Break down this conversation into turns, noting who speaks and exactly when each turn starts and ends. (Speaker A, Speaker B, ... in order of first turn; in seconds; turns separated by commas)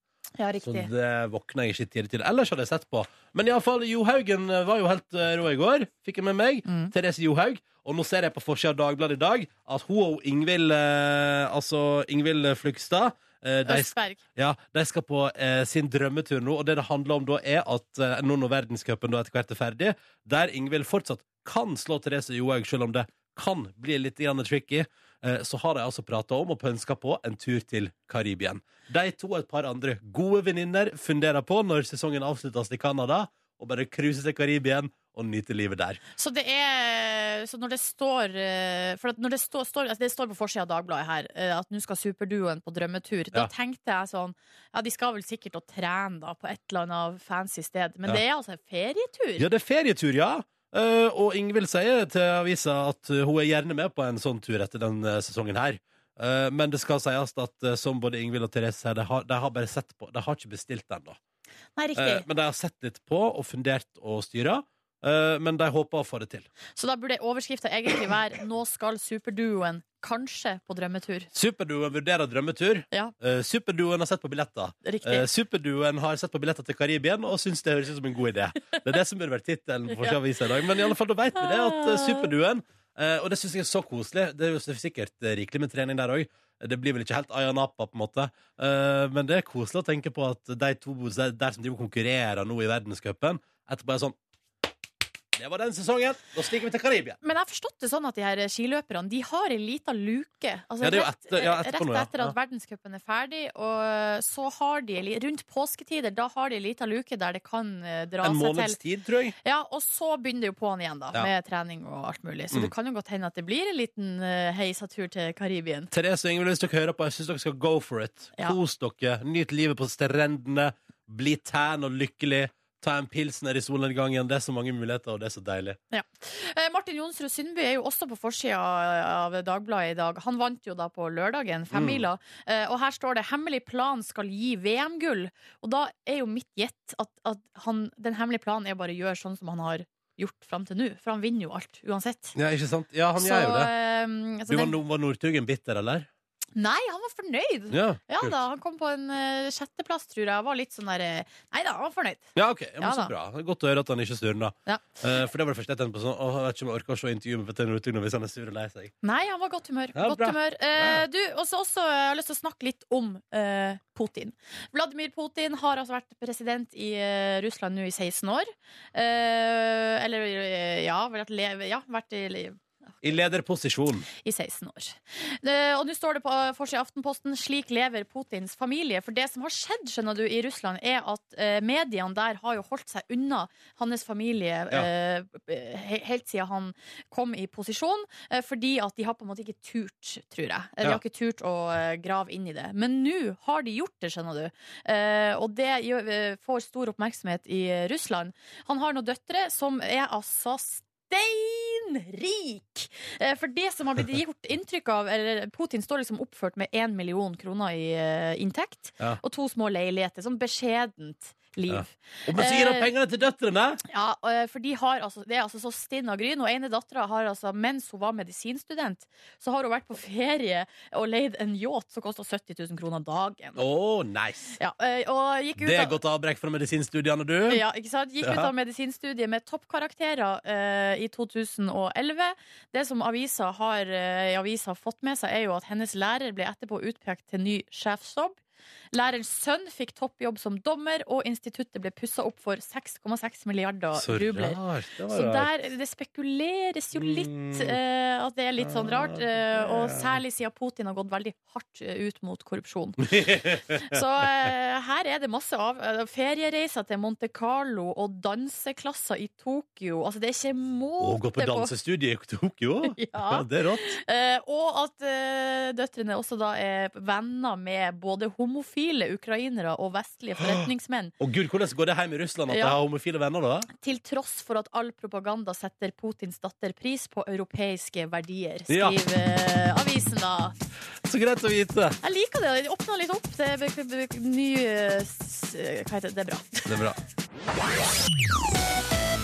Speaker A: 0.4-0.9, Speaker B: 0.6-36.0, Speaker A: 6.7-6.9, Speaker A: 13.7-14.2, Speaker A: 36.2-49.5, Speaker B: 49.4-61.2, Speaker A: 61.8-62.3, Speaker B: 62.0-66.5, Speaker A: 66.8-71.3, Speaker B: 71.3-94.2, Speaker A: 74.8-75.3, Speaker A: 79.9-80.2, Speaker A: 81.3-82.3, Speaker B: 95.3-97.2, Speaker A: 97.2-108.8, Speaker B: 100.8-102.3, Speaker B: 108.2-109.4, Speaker A: 109.4-115.9, Speaker B: 115.9-125.8, Speaker A: 125.9-142.4, Speaker B: 131.7-132.1, Speaker B: 142.3-143.7, Speaker A: 143.2-144.8, Speaker B: 144.5-146.1, Speaker A: 146.6-153.1, Speaker B: 147.7-148.4, Speaker B: 152.3-158.9, Speaker A: 159.0-172.6, Speaker B: 159.9-161.1, Speaker B: 173.0-174.1, Speaker A: 174.2-212.9, Speaker B: 211.7-213.8, Speaker A: 213.9-223.6, Speaker B: 223.6-224.6, Speaker A: 224.6-226.0, Speaker B: 225.6-227.6, Speaker A: 227.5-238.4, Speaker B: 228.2-228.5, Speaker A: 238.9-244.6, Speaker B: 243.9-245.5, Speaker A: 245.1-253.1, Speaker B: 246.9-247.8, Speaker B: 248.6-250.2, Speaker B: 253.0-254.0, Speaker A: 253.7-261.7, Speaker B: 261.0-264.0, Speaker A: 262.9-271.1, Speaker B: 270.4-270.7, Speaker B: 271.2-273.7, Speaker A: 272.5-272.8, Speaker A: 273.8-280.5, Speaker B: 278.7-279.0, Speaker B: 281.0-282.0, Speaker A: 282.0-286.7, Speaker B: 286.7-287.0